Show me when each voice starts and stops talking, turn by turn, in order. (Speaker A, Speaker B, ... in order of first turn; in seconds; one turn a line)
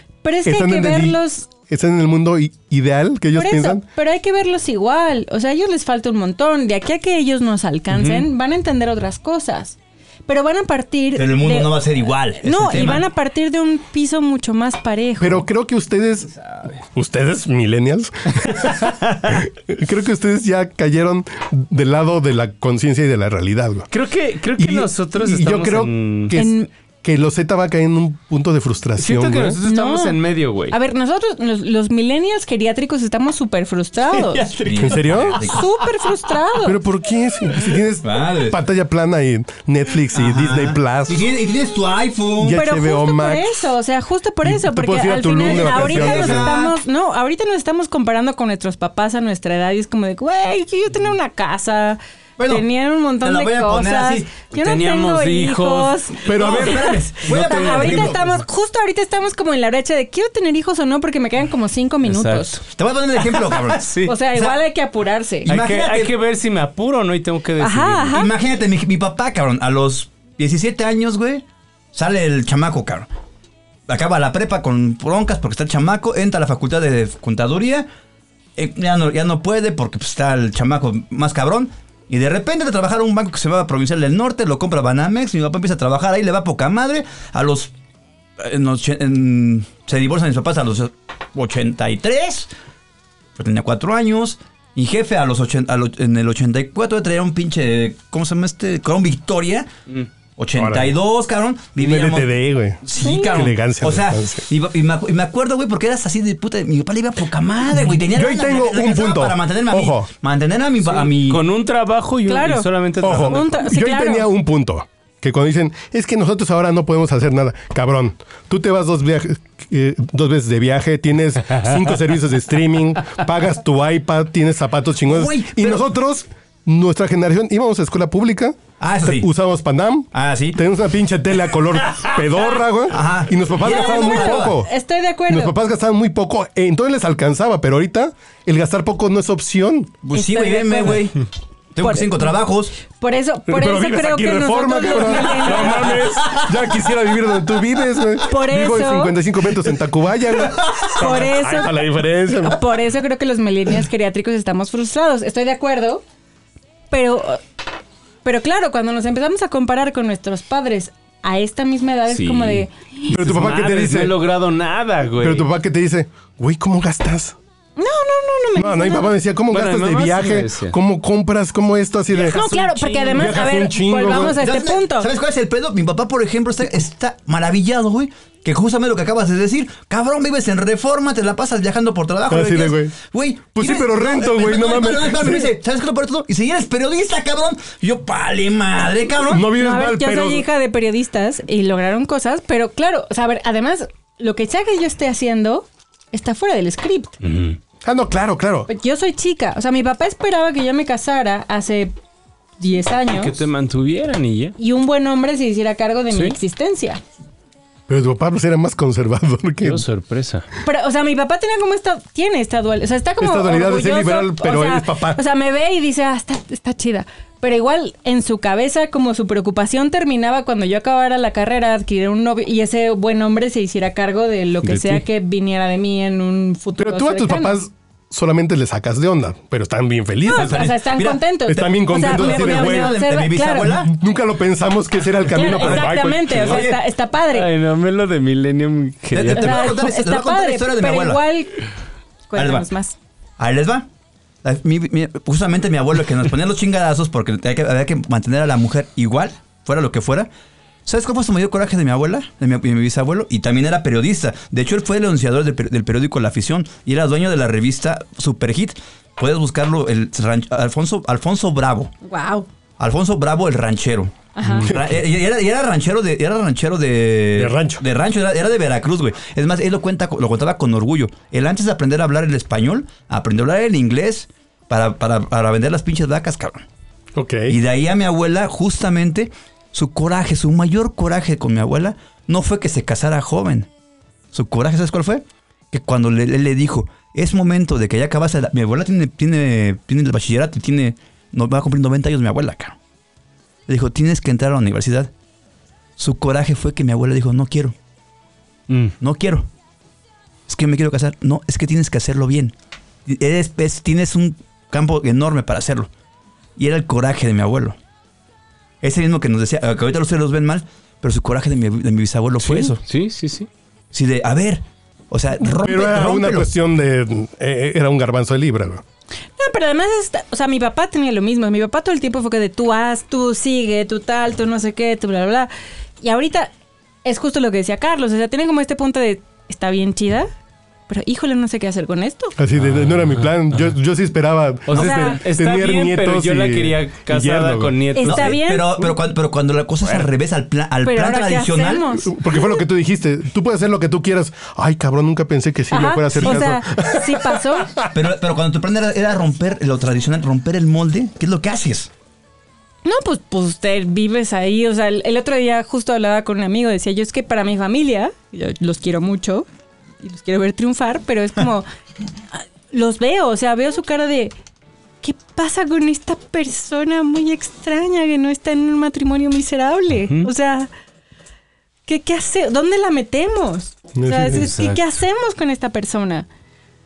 Speaker A: 0.2-1.5
Speaker B: 0.4-3.8
Speaker A: 3.3-9.8
Speaker C: 7.9-8.3
Speaker A: 10.3-11.9
Speaker D: 11.1-13.1
Speaker A: 12.4-15.4
Speaker B: 15.2-23.9
Speaker C: 23.9-26.4
Speaker B: 24.6-29.6
Speaker A: 26.3-26.7
Speaker C: 29.0-30.8
Speaker A: 29.6-34.5
Speaker C: 34.1-35.0
Speaker D: 34.6-35.7
Speaker B: 34.8-35.4
Speaker A: 35.3-36.8
Speaker B: 36.6-41.3
Speaker D: 38.0-38.6
Speaker D: 40.1-42.6
Speaker B: 42.4-43.6
Speaker A: 42.5-62.6
Speaker B: 44.4-46.5
Speaker D: 45.4-46.7
Speaker D: 52.4-52.7
Speaker D: 53.2-54.4
Speaker C: 54.5-56.0
Speaker B: 56.2-58.2
Speaker D: 56.2-58.2
Speaker C: 62.0-62.6
Speaker D: 62.7-64.5
Speaker C: 63.2-64.1
Speaker A: 64.0-65.5
Speaker D: 65.5-66.1
Speaker C: 65.5-68.2
Speaker A: 67.6-68.3
Speaker D: 68.1-73.1
Speaker D: 73.9-77.9
Speaker D: 78.5-87.7
Speaker D: 88.4-92.5
Speaker D: 93.4-99.7
Speaker D: 100.4-111.4
Speaker B: 100.5-100.9
Speaker B: 101.8-104.4
Speaker A: 103.0-103.3
Speaker B: 108.1-110.1
Speaker C: 110.8-113.6
Speaker A: 112.2-114.3
Speaker B: 113.0-134.7
Speaker D: 125.1-125.8
Speaker D: 128.8-129.3
Speaker D: 130.1-130.6
Speaker D: 132.9-134.6
Speaker A: 133.6-135.5
Speaker B: 135.3-139.9
Speaker D: 140.0-141.2
Speaker A: 140.1-141.1
Speaker D: 141.7-142.8
Speaker A: 141.8-142.2
Speaker A: 142.9-146.0
Speaker B: 143.5-152.6
Speaker D: 146.0-146.5
Speaker A: 148.2-149.2
Speaker A: 150.9-156.0
Speaker A: 156.9-157.4
Speaker A: 158.2-162.7
Speaker C: 162.1-165.5
Speaker B: 163.1-164.2
Speaker B: 165.2-167.3
Speaker A: 167.8-169.1
Speaker B: 168.6-172.4
Speaker C: 169.5-170.8
Speaker D: 172.1-172.9
Speaker A: 172.3-175.1
Speaker C: 172.3-173.2
Speaker B: 173.2-174.4
Speaker D: 174.3-189.4
Speaker B: 182.3-182.9
Speaker B: 183.5-185.5
Speaker B: 189.3-190.4
Speaker A: 189.5-197.2
Speaker C: 197.2-197.6
Speaker B: 197.8-198.7
Speaker A: 198.7-201.9
Speaker A: 202.6-203.3
Speaker C: 203.1-204.5
Speaker A: 204.6-207.0
Speaker C: 206.1-206.4
Speaker B: 207.9-209.8
Speaker C: 209.6-210.4
Speaker A: 210.6-227.6
Speaker B: 213.2-215.2
Speaker C: 224.6-225.0
Speaker B: 226.8-230.8
Speaker A: 230.2-233.8
Speaker D: 230.4-233.9
Speaker B: 231.5-233.0
Speaker B: 233.7-236.6
Speaker A: 235.3-237.5
Speaker D: 235.6-236.8
Speaker C: 237.3-239.7
Speaker D: 239.1-241.2
Speaker A: 239.3-241.6
Speaker A: 242.3-242.9
Speaker D: 242.3-242.7
Speaker D: 243.4-243.8
Speaker D: 244.4-250.3
Speaker D: 250.8-261.9
Speaker A: 262.0-262.4
Speaker D: 262.8-276.6
Speaker A: 264.3-264.7
Speaker B: 264.6-265.0
Speaker B: 267.4-267.8
Speaker B: 277.1-277.6
Speaker D: 277.5-283.7
Speaker D: 284.3-292.8
Speaker D: 293.7-295.1
Speaker D: 296.0-297.7
Speaker C: 298.7-298.9
Speaker D: 299.0-299.5
Speaker D: 300.5-302.5
Speaker D: 303.1-305.9
Speaker D: 306.6-307.8
Speaker D: 308.8-312.8
Speaker C: 312.4-313.5
Speaker D: 313.9-316.5
Speaker B: 315.4-318.8
Speaker A: 319.4-326.5
Speaker A: 327.0-330.3
Speaker A: 330.9-332.3
Speaker B: 332.4-337.9
Speaker C: 332.6-333.6
Speaker C: 334.7-338.4
Speaker A: 334.7-335.2
Speaker A: 337.9-338.8
Speaker D: 338.0-341.9
Speaker A: 340.8-342.1
Speaker B: 342.0-347.9
Speaker A: 345.7-347.7
Speaker D: 347.9-351.9
Speaker A: 352.8-359.4
Speaker A: 360.0-361.7
Speaker A: 362.3-364.3
Speaker A: 365.0-370.7
Speaker C: 369.9-370.3
Speaker A: 371.9-376.3
Speaker B: 373.9-374.5
Speaker C: 374.3-374.9